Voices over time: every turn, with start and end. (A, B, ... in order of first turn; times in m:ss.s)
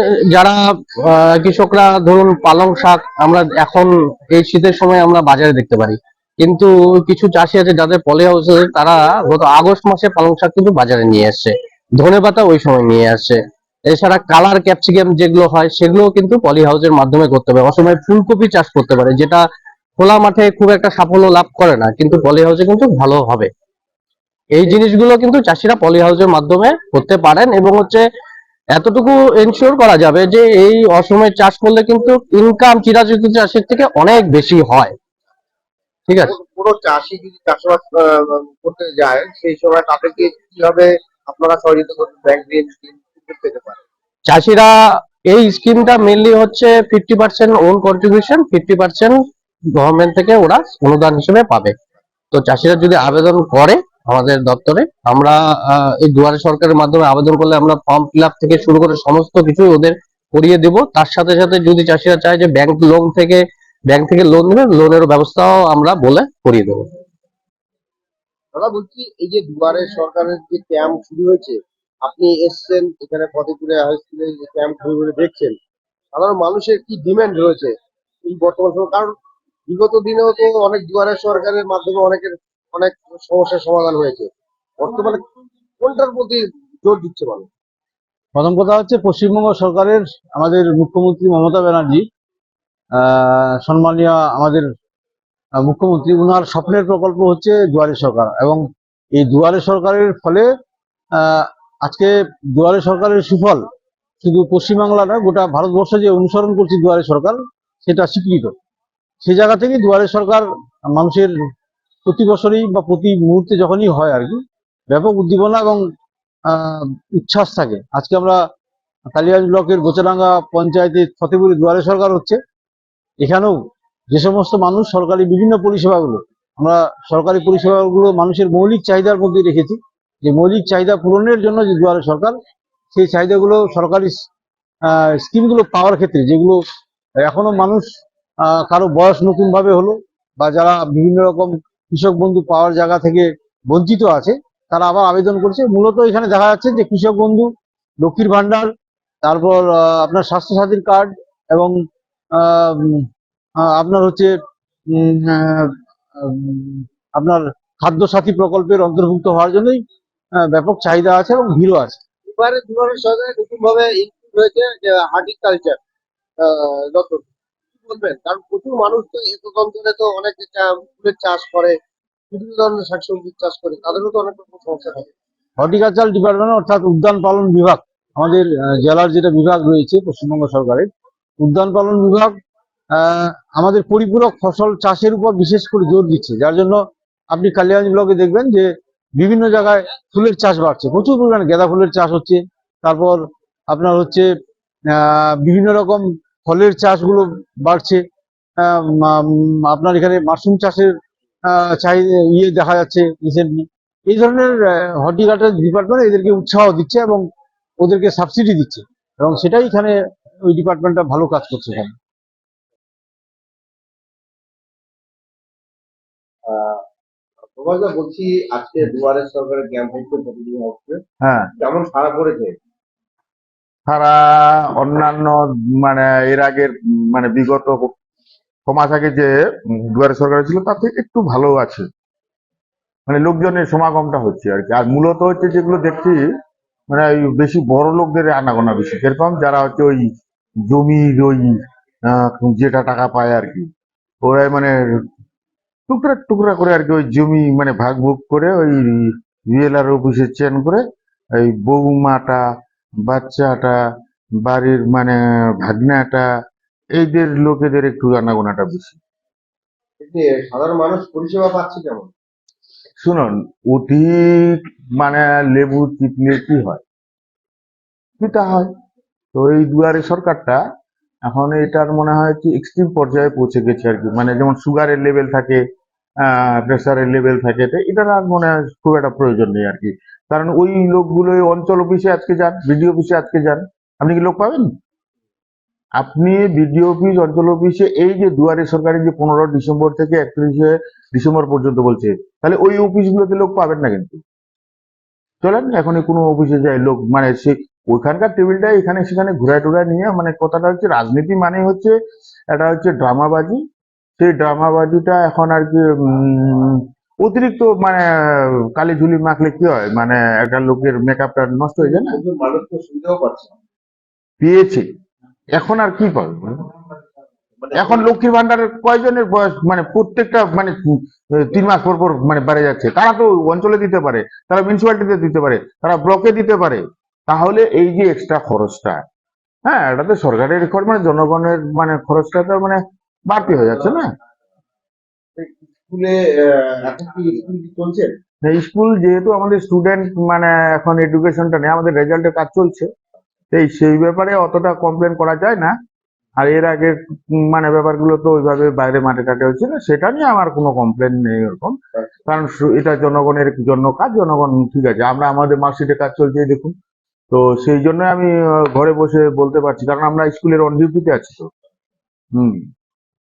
0:00.3-0:13.4 A
0:13.9-0:19.4 A
0:20.0-0:23.5 A
0:24.5-0:28.0 A
0:28.8-0:34.9 A
0:36.1-0:36.3 A
0:36.3-0:43.8 B
0:44.3-0:44.7 A
0:45.3-0:49.2 A
0:49.8-0:51.7 A
0:52.3-1:06.9 A
1:08.6-1:15.5 B
1:16.1-1:17.7 B
1:18.2-1:19.1 B
1:19.7-1:25.2 B
1:25.8-1:27.5 B
1:28.4-1:32.0 C
1:33.0-1:34.7 C
1:35.6-1:38.6 C
1:39.2-1:40.5 C
1:41.2-1:43.6 C
1:44.2-1:48.5 C
1:49.2-1:51.3 C
1:52.0-1:55.8 C
1:56.5-1:58.4 C
1:59.1-2:02.4 C
2:03.2-2:12.4 C
2:12.9-2:14.3 C
2:14.9-2:16.6 C
2:17.2-2:17.9 C
2:18.5-2:27.5 C
2:28.0-2:28.7 C
2:29.2-2:31.8 C
2:32.4-2:33.1 C
2:33.6-2:34.3 C
2:34.9-2:39.8 C
2:40.4-2:42.0 C
2:42.4-2:45.8 B
2:46.4-2:47.3 B
2:47.8-2:51.8 B
2:52.3-2:55.1 B
2:55.6-3:00.9 C
3:01.4-3:02.3 C
3:02.9-3:06.8 C
3:07.3-3:14.3 C
3:14.9-3:18.0 C
3:18.6-3:20.9 C
3:21.5-3:27.3 C
3:27.8-3:31.9 C
3:36.5-3:36.8 B
3:37.6-3:41.0 B
3:41.2-3:41.5 D
3:41.6-3:42.6 B
3:43.9-3:47.9 D
3:48.7-3:51.9 D
3:53.1-3:56.2 D
3:56.9-4:00.0 D
4:00.7-4:03.7 D
4:04.2-4:05.0 D
4:05.9-4:10.8 D
4:11.4-4:12.4 D
4:13.0-4:13.8 D
4:14.4-4:16.3 D
4:17.0-4:19.0 D
4:20.0-4:22.1 B
4:23.0-4:26.8 D
4:28.2-4:28.7 D
4:29.3-4:30.6 D
4:31.3-4:35.6 D
4:36.2-4:44.7 D
4:46.0-4:54.2 D
4:55.4-5:02.0 D
5:02.5-5:03.6 D
5:04.2-5:12.2 D
5:11.8-5:13.5 B
5:14.4-5:14.9 D
5:15.5-5:16.7 D
5:17.6-5:18.1 B
5:17.7-5:29.0 D
5:29.6-5:34.1 D
5:35.4-5:38.1 B
5:38.4-5:42.9 D
5:43.5-5:45.8 D
5:46.4-5:56.8 D
5:57.3-6:01.5 D
6:02.3-6:02.7 D